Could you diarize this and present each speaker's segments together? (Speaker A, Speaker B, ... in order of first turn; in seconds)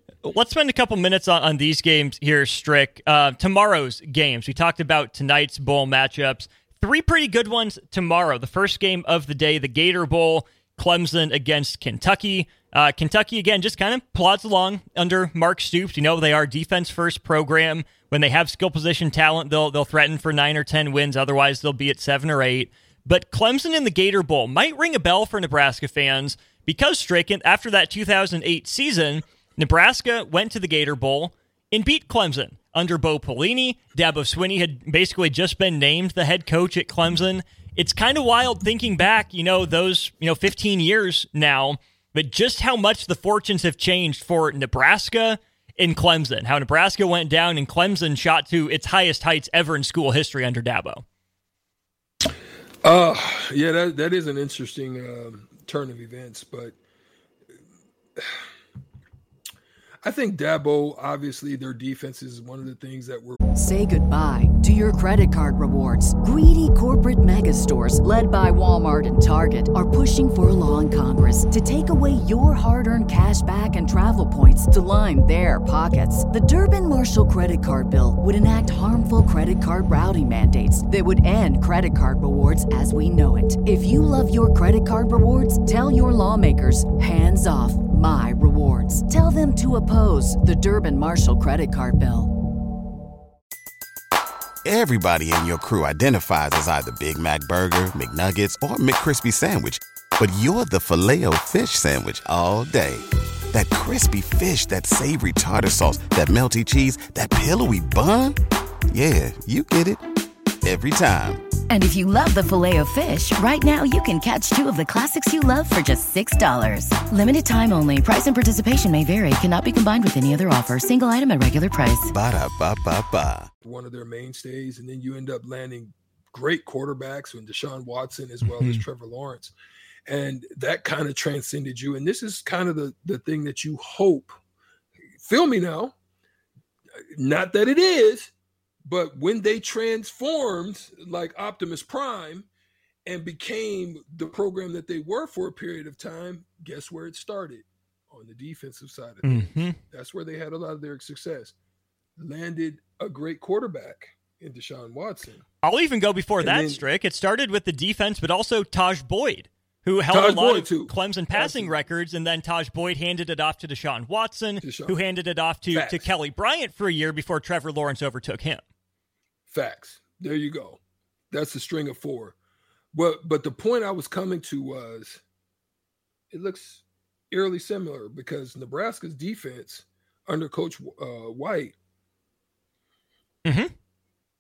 Speaker A: 0.2-51.0, 128.4-128.8, 149.2-149.8, 155.6-168.6, 183.4-183.7
Speaker B: 52.8-56.8, 58.2-58.5, 60.0-63.4, 123.6-129.5, 130.1-134.3, 135.2-135.9, 137.2-138.3, 138.8-142.5, 143.1-151.5, 152.2-155.4, 156.4-156.8, 160.1-161.8, 164.6-165.0, 165.7-166.1, 169.5-170.8, 171.3-172.3, 172.9-175.2, 176.3-181.8
Speaker C: 63.6-92.3
Speaker D: 94.7-108.4, 108.9-110.0, 110.6-111.4, 122.1-123.5
Speaker E: 111.7-122.1